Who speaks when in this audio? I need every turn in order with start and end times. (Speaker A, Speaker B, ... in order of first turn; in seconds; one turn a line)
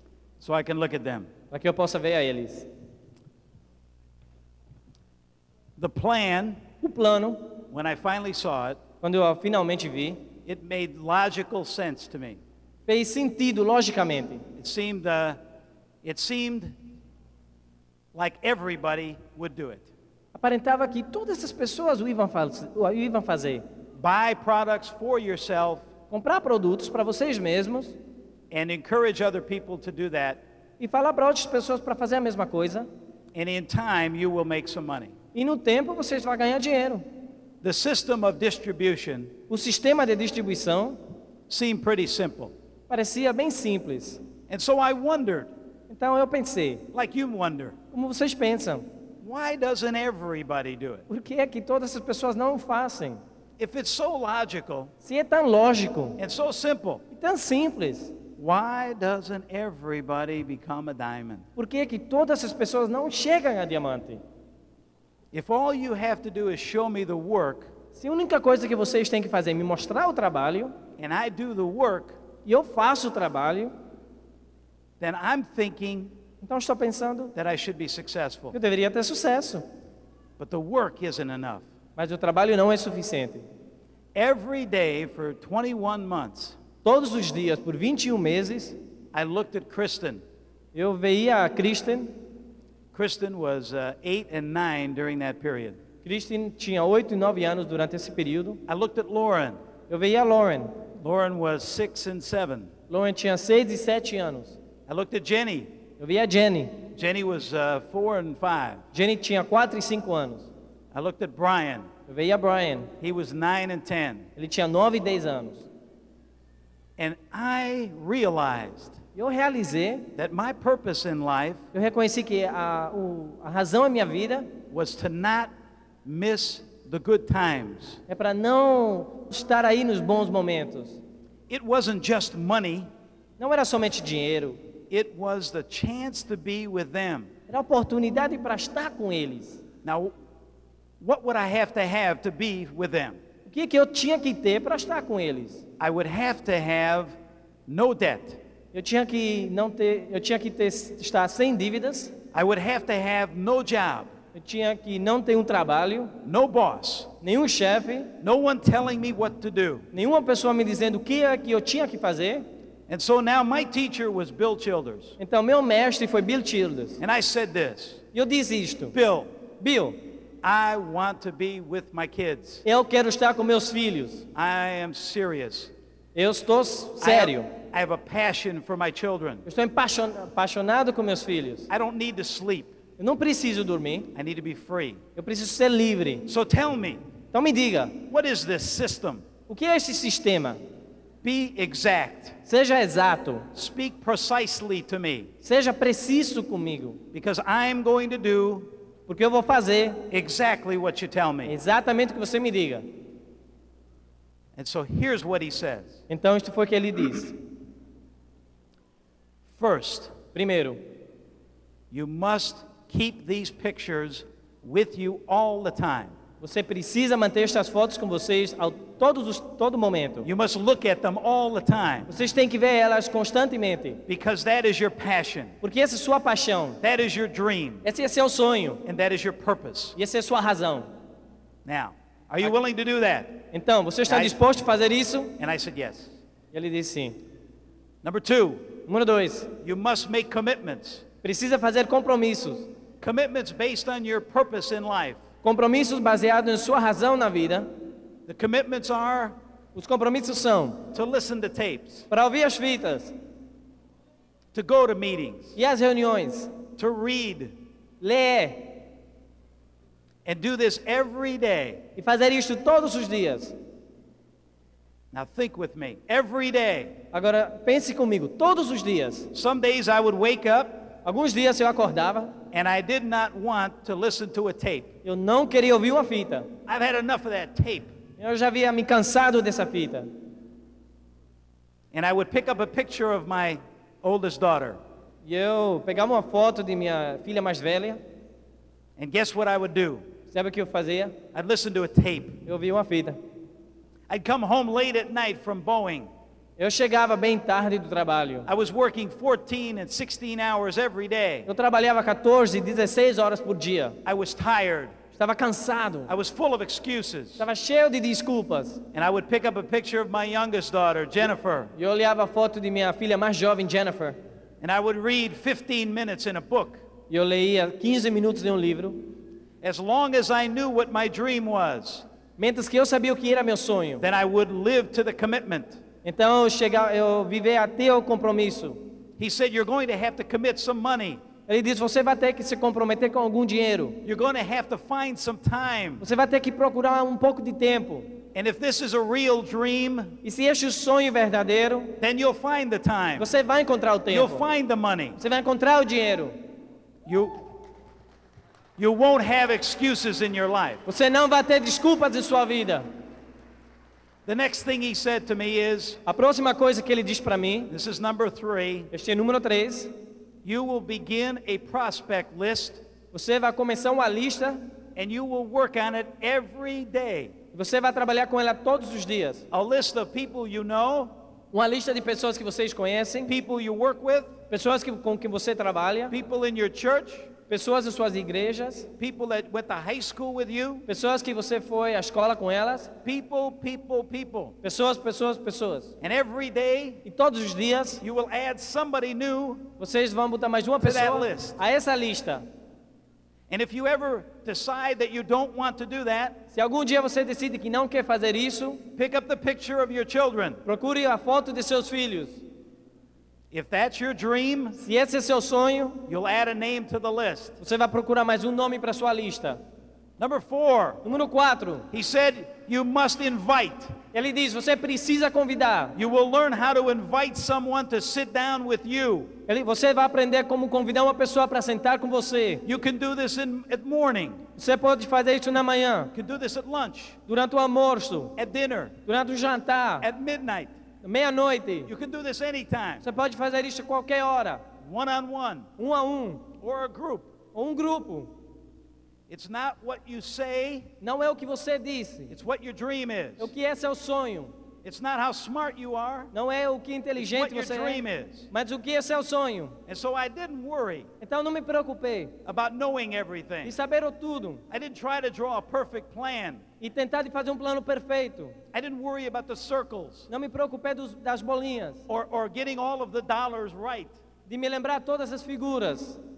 Speaker A: 0.4-1.3
Speaker B: 1.5-2.7
Speaker A: 5.8-6.6
Speaker B: 6.8-7.6
Speaker A: 7.7-8.8
Speaker B: 9.0-10.2
Speaker A: 10.5-12.4
Speaker B: 12.9-14.4
Speaker A: 14.6-15.4
Speaker A: 16.0-16.8
Speaker A: 18.1-19.9
Speaker B: 20.4-23.6
Speaker A: 24.0-25.9
Speaker B: 26.1-28.0
Speaker A: 28.5-30.4
Speaker B: 30.8-32.9
Speaker A: 33.3-35.1
Speaker B: 35.3-37.0
Speaker A: 37.6-39.4
Speaker B: 39.5-41.0
Speaker A: 41.5-42.5
Speaker B: 42.9-44.2
Speaker A: 44.5-45.5
Speaker B: 45.9-46.9
Speaker A: 46.9-47.8
Speaker B: 47.9-48.9
Speaker A: 49.2-51.0
Speaker B: 51.1-53.2
Speaker A: 53.6-54.9
Speaker B: 55.0-56.2
Speaker A: 56.2-57.0
Speaker B: 57.1-58.1
Speaker A: 58.4-61.5
Speaker B: 61.6-64.2
Speaker A: 65.3-67.7
Speaker B: 68.0-70.8
Speaker A: 71.0-72.2
Speaker B: 72.5-73.7
Speaker A: 75.0-76.1
Speaker B: 76.4-77.3
Speaker A: 77.3-78.6
Speaker B: 78.5-79.6
Speaker A: 80.4-81.7
Speaker B: 82.0-83.4
Speaker A: 84.2-86.6
Speaker B: 86.8-88.8
Speaker A: 89.1-90.2
Speaker B: 90.8-92.2
Speaker A: 92.9-95.8
Speaker B: 96.0-98.6
Speaker A: 98.7-99.6
Speaker B: 99.9-100.8
Speaker A: 101.0-102.7
Speaker B: 102.9-104.6
Speaker A: 104.9-105.7
Speaker B: 106.0-106.9
Speaker A: 106.9-108.8
Speaker B: 108.9-110.5
Speaker A: 110.9-111.9
Speaker B: 112.1-112.9
Speaker A: 113.0-114.3
Speaker B: 114.4-115.7
Speaker A: 117.0-119.0
Speaker B: 119.2-120.1
Speaker A: 120.2-121.7
Speaker B: 121.7-124.5
Speaker A: 124.7-125.5
Speaker A: 126.0-128.0
Speaker B: 128.1-131.0
Speaker A: 131.5-132.9
Speaker B: 133.4-134.6
Speaker A: 134.9-137.3
Speaker B: 137.5-139.6
Speaker A: 139.8-140.1
Speaker A: 141.0-143.2
Speaker B: 143.5-145.6
Speaker A: 145.8-148.4
Speaker B: 148.7-152.1
Speaker A: 152.3-154.1
Speaker B: 154.3-156.2
Speaker A: 156.2-157.1
Speaker B: 157.2-158.1
Speaker A: 158.2-159.9
Speaker B: 159.9-162.5
Speaker A: 162.9-165.2
Speaker B: 165.2-167.0
Speaker A: 167.0-168.0
Speaker B: 168.1-169.0
Speaker A: 168.9-169.3
Speaker B: 169.6-170.1
Speaker A: 170.4-172.6
Speaker B: 172.7-174.3
Speaker A: 174.3-175.7
Speaker B: 176.2-177.5
Speaker A: 177.0-179.4
Speaker B: 179.5-181.7
Speaker A: 181.7-182.7
Speaker B: 183.0-184.1
Speaker A: 184.1-185.0
Speaker B: 185.2-186.3
Speaker A: 186.3-187.0
Speaker B: 187.3-188.0
Speaker A: 188.1-189.2
Speaker B: 189.5-190.6
Speaker A: 191.2-192.4
Speaker B: 192.5-193.5
Speaker A: 193.5-195.3
Speaker B: 195.4-197.0
Speaker A: 197.1-198.7
Speaker B: 199.1-200.0
Speaker A: 200.1-201.6
Speaker B: 201.4-202.9
Speaker A: 204.6-206.0
Speaker B: 206.1-207.4
Speaker A: 209.6-210.2
Speaker B: 210.3-210.8
Speaker A: 211.9-216.2
Speaker B: 216.4-220.3
Speaker A: 220.2-222.1
Speaker B: 222.1-224.0
Speaker A: 224.1-225.6
Speaker B: 225.6-226.8
Speaker A: 226.8-227.9
Speaker B: 227.8-228.8
Speaker A: 228.8-230.0
Speaker B: 230.0-230.9
Speaker A: 231.7-233.4
Speaker B: 233.5-235.4
Speaker A: 234.1-234.4
Speaker A: 235.4-236.1
Speaker B: 236.5-237.2
Speaker A: 238.0-238.7
Speaker B: 238.9-239.5
Speaker A: 239.6-241.1
Speaker B: 241.2-242.7
Speaker A: 243.0-245.2
Speaker B: 245.4-247.7
Speaker A: 248.3-249.3
Speaker B: 249.8-250.9
Speaker A: 250.9-252.1
Speaker B: 252.1-253.1
Speaker A: 254.5-255.6
Speaker B: 255.6-256.5
Speaker A: 256.8-257.5
Speaker B: 258.0-258.8
Speaker A: 260.2-261.8
Speaker B: 262.0-263.6
Speaker A: 265.1-267.0
Speaker B: 267.1-269.3
Speaker A: 269.3-270.9
Speaker B: 271.0-272.4
Speaker A: 272.5-274.9
Speaker B: 275.1-276.5
Speaker A: 276.7-277.9
Speaker B: 278.2-280.1
Speaker A: 281.9-284.8
Speaker B: 285.2-288.0
Speaker A: 289.0-290.1
Speaker B: 290.3-291.2
Speaker A: 291.3-292.4
Speaker B: 292.5-293.2
Speaker A: 294.1-296.1
Speaker B: 296.6-298.5
Speaker A: 298.5-301.5
Speaker B: 301.5-304.0
Speaker A: 304.1-304.9
Speaker B: 305.1-306.1
Speaker A: 306.1-307.4
Speaker B: 307.4-308.8
Speaker A: 308.9-311.7
Speaker B: 311.8-314.2
Speaker A: 314.6-316.8
Speaker B: 317.1-319.0
Speaker A: 319.6-322.1
Speaker B: 322.4-324.0
Speaker A: 324.0-325.8
Speaker B: 326.0-328.8
Speaker A: 329.2-331.2
Speaker B: 331.5-334.0
Speaker A: 334.0-336.0
Speaker B: 336.0-338.1
Speaker A: 338.3-340.2
Speaker B: 340.2-342.0
Speaker A: 342.0-343.3
Speaker B: 343.2-344.5
Speaker A: 344.1-345.2
Speaker B: 345.2-346.4
Speaker A: 347.1-347.4
Speaker A: 348.8-350.8
Speaker B: 350.9-352.9
Speaker A: 354.3-356.0
Speaker B: 356.1-357.7
Speaker A: 357.7-358.9
Speaker B: 358.9-359.9
Speaker A: 360.4-362.8
Speaker B: 363.1-364.6
Speaker A: 365.0-367.3
Speaker B: 367.5-369.4
Speaker A: 369.5-371.1
Speaker B: 371.5-373.3
Speaker A: 373.3-374.4
Speaker B: 374.5-376.1
Speaker A: 376.1-377.3
Speaker B: 377.5-378.9
Speaker A: 379.0-380.9
Speaker B: 380.9-382.9
Speaker A: 383.0-384.6
Speaker B: 384.6-385.9
Speaker A: 386.0-387.0
Speaker B: 387.1-388.0
Speaker A: 388.0-389.7
Speaker B: 389.8-392.4
Speaker A: 390.8-391.6
Speaker A: 393.5-396.4
Speaker B: 396.5-398.8
Speaker A: 399.0-400.6
Speaker B: 400.6-402.4
Speaker A: 403.5-404.8
Speaker B: 404.8-406.1
Speaker A: 406.1-407.6
Speaker B: 407.6-409.6
Speaker A: 410.2-411.0
Speaker B: 411.0-411.9
Speaker A: 411.9-414.0
Speaker B: 414.1-416.0
Speaker A: 415.9-419.3
Speaker B: 419.5-422.6
Speaker A: 422.6-424.4
Speaker B: 424.6-426.1
Speaker A: 426.1-427.2
Speaker B: 427.3-428.4
Speaker A: 428.4-428.9
Speaker B: 429.1-430.1
Speaker A: 430.0-430.7
Speaker B: 431.0-431.9
Speaker A: 431.9-433.1
Speaker B: 433.0-434.6
Speaker A: 434.8-435.7
Speaker B: 435.8-436.5
Speaker A: 436.6-437.3
Speaker B: 437.5-438.3
Speaker A: 439.3-440.9
Speaker B: 441.0-442.3
Speaker A: 442.3-443.5
Speaker B: 443.4-444.5
Speaker A: 444.8-446.3
Speaker B: 446.3-449.8
Speaker A: 447.2-448.5
Speaker A: 449.9-451.1
Speaker B: 451.2-452.4
Speaker A: 452.4-453.7
Speaker B: 453.6-454.6
Speaker A: 454.7-456.6
Speaker B: 456.8-458.6
Speaker A: 458.7-460.3
Speaker B: 460.3-462.0
Speaker A: 462.1-464.1
Speaker B: 464.5-466.2